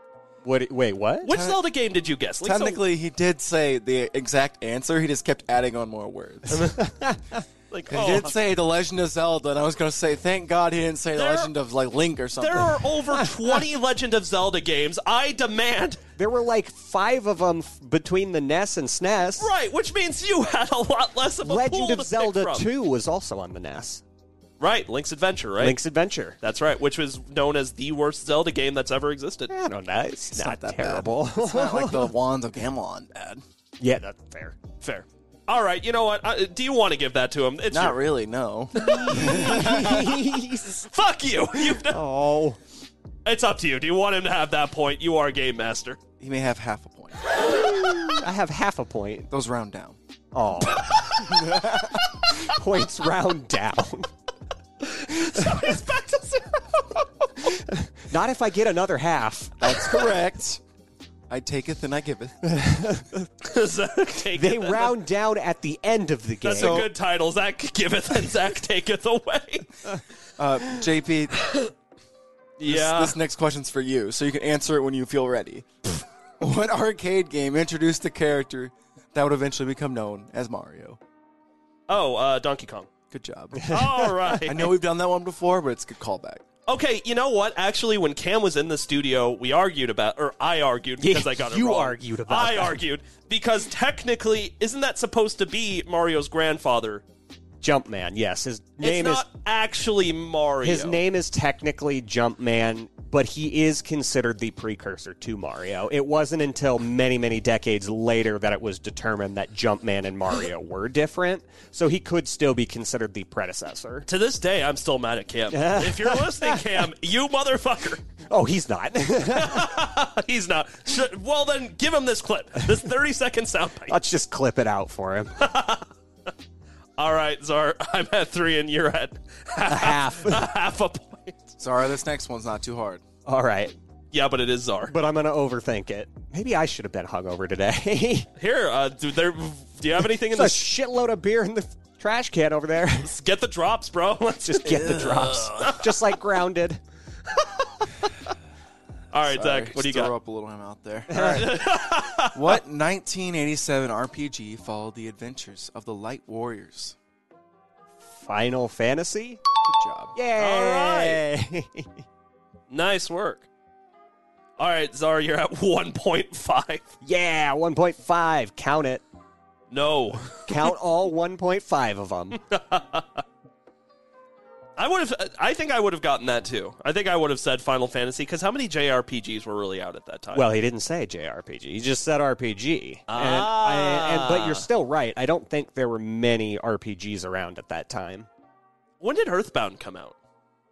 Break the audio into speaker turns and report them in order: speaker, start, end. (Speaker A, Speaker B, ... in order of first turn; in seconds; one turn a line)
Speaker A: 0.4-1.3
Speaker B: 1.2-2.8
Speaker C: 1.3-1.6
Speaker C: 2.4-6.7
Speaker B: 6.5-6.8
Speaker A: 6.6-7.4
Speaker B: 7.7-8.4
Speaker C: 7.9-12.8
Speaker B: 11.2-11.5
Speaker B: 12.4-16.0
Speaker A: 16.2-19.5
Speaker B: 19.4-22.7
Speaker A: 21.4-24.0
Speaker B: 24.6-25.8
Speaker A: 25.6-26.4
Speaker B: 26.4-29.5
Speaker A: 29.5-32.1
Speaker C: 30.3-33.4
Speaker A: 33.8-34.6
Speaker B: 34.8-38.1
Speaker C: 37.7-40.2
Speaker A: 38.8-40.9
Speaker B: 38.8-39.8
Speaker B: 40.8-42.0
Speaker A: 41.8-42.6
Speaker B: 43.2-46.0
Speaker C: 46.2-47.3
Speaker A: 47.5-49.3
Speaker C: 49.3-50.0
Speaker A: 50.3-54.1
Speaker B: 50.6-51.5
Speaker C: 51.4-52.0
Speaker B: 54.8-57.3
Speaker A: 55.1-55.7
Speaker A: 57.4-60.1
Speaker C: 59.6-60.6
Speaker C: 61.3-62.4
Speaker A: 62.4-63.3
Speaker B: 63.4-65.0
Speaker A: 64.3-66.9
Speaker B: 66.4-69.8
Speaker C: 66.5-66.9
Speaker C: 70.4-71.5
Speaker B: 71.4-71.7
Speaker B: 72.6-73.2
Speaker C: 72.7-81.0
Speaker B: 81.9-82.9
Speaker C: 83.1-83.8
Speaker B: 83.7-84.7
Speaker A: 83.7-84.0
Speaker C: 84.4-86.4
Speaker B: 86.7-97.0
Speaker A: 91.0-92.8
Speaker A: 97.6-99.2
Speaker B: 98.8-101.0
Speaker A: 100.6-114.1
Speaker B: 114.1-118.0
Speaker A: 115.5-116.7
Speaker A: 118.3-119.8
Speaker B: 119.3-124.0
Speaker A: 123.9-125.4
Speaker B: 125.4-125.9
Speaker B: 127.0-131.5
Speaker A: 129.7-130.5
Speaker C: 131.6-133.0
Speaker A: 133.3-133.8
Speaker B: 134.1-134.9
Speaker A: 134.9-138.3
Speaker B: 138.4-140.7
Speaker A: 140.3-143.1
Speaker B: 143.0-146.2
Speaker A: 144.4-146.8
Speaker C: 144.7-145.2
Speaker B: 147.3-148.1
Speaker B: 149.1-150.1
Speaker C: 149.2-151.7
Speaker A: 151.1-151.5
Speaker B: 151.2-152.6
Speaker C: 152.3-157.0
Speaker A: 158.1-159.4
Speaker C: 159.6-160.2
Speaker A: 160.2-162.0
Speaker B: 160.4-161.2
Speaker B: 162.7-163.5
Speaker B: 164.6-166.9
Speaker A: 167.0-169.0
Speaker B: 169.7-170.7
Speaker A: 170.5-172.4
Speaker B: 172.4-173.2
Speaker B: 174.8-180.5
Speaker A: 180.3-188.3
Speaker B: 183.1-184.7
Speaker B: 189.0-190.2